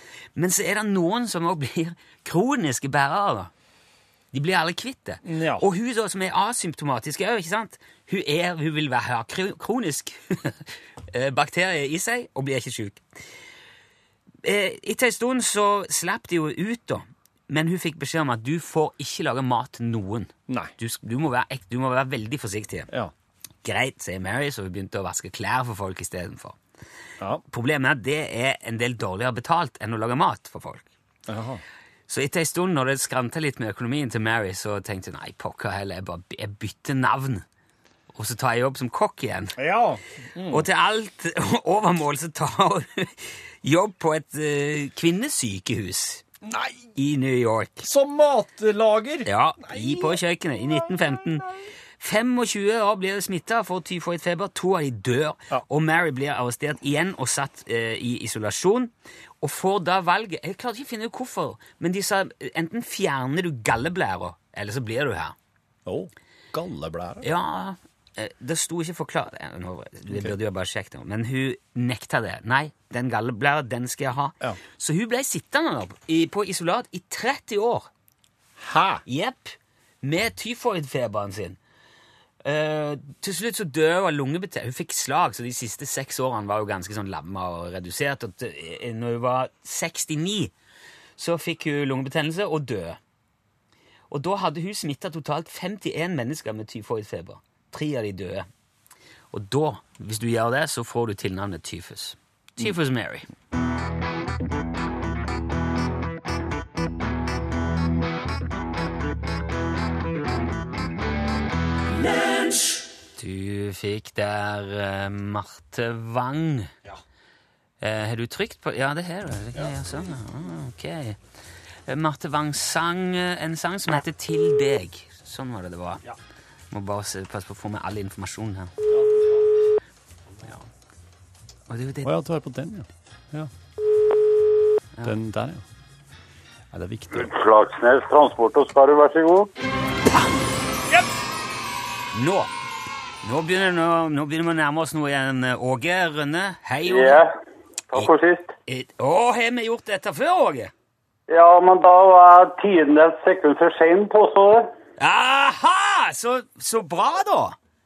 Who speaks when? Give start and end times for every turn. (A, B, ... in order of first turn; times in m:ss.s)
0:00.4-0:03.5 A
0:04.3-0:13.0 A
0:05.2-0:05.6 B
0:14.4-0:22.9 A
0:20.5-0:20.7 B
0:23.6-0:26.6 A
0:27.5-0:30.9 A
0:31.3-0:31.6 B
0:32.1-0:37.4 A
0:38.1-0:39.6 A
0:39.6-0:40.6 B
0:40.5-0:46.2 A
0:46.4-0:46.9 B
0:47.0-0:47.9 A
0:47.8-0:50.2 B
0:49.2-1:05.4 A
0:50.8-0:51.1 B
1:05.9-1:07.2 B
1:07.2-1:17.9 A
1:18.6-1:19.0 B
1:19.1-1:21.6 A
1:22.4-1:30.5 A
1:31.2-1:33.0 A
1:34.1-1:38.5 A
1:39.3-1:43.3 A
1:53.2-1:56.7 A
1:57.8-2:01.2 A
2:01.9-2:06.0 A
2:06.7-2:08.7 A
2:08.9-2:09.4 B
2:11.7-2:12.1 A
2:12.0-2:13.5 B
2:15.0-2:15.6 B
2:16.7-2:17.3 B
2:17.1-2:19.5 C
2:22.1-2:22.5 A
2:23.2-2:27.2 A
2:26.8-2:27.3 C
2:27.9-2:28.5 C
2:28.7-2:30.7 A
2:31.3-2:34.7 C
2:35.0-2:37.6 A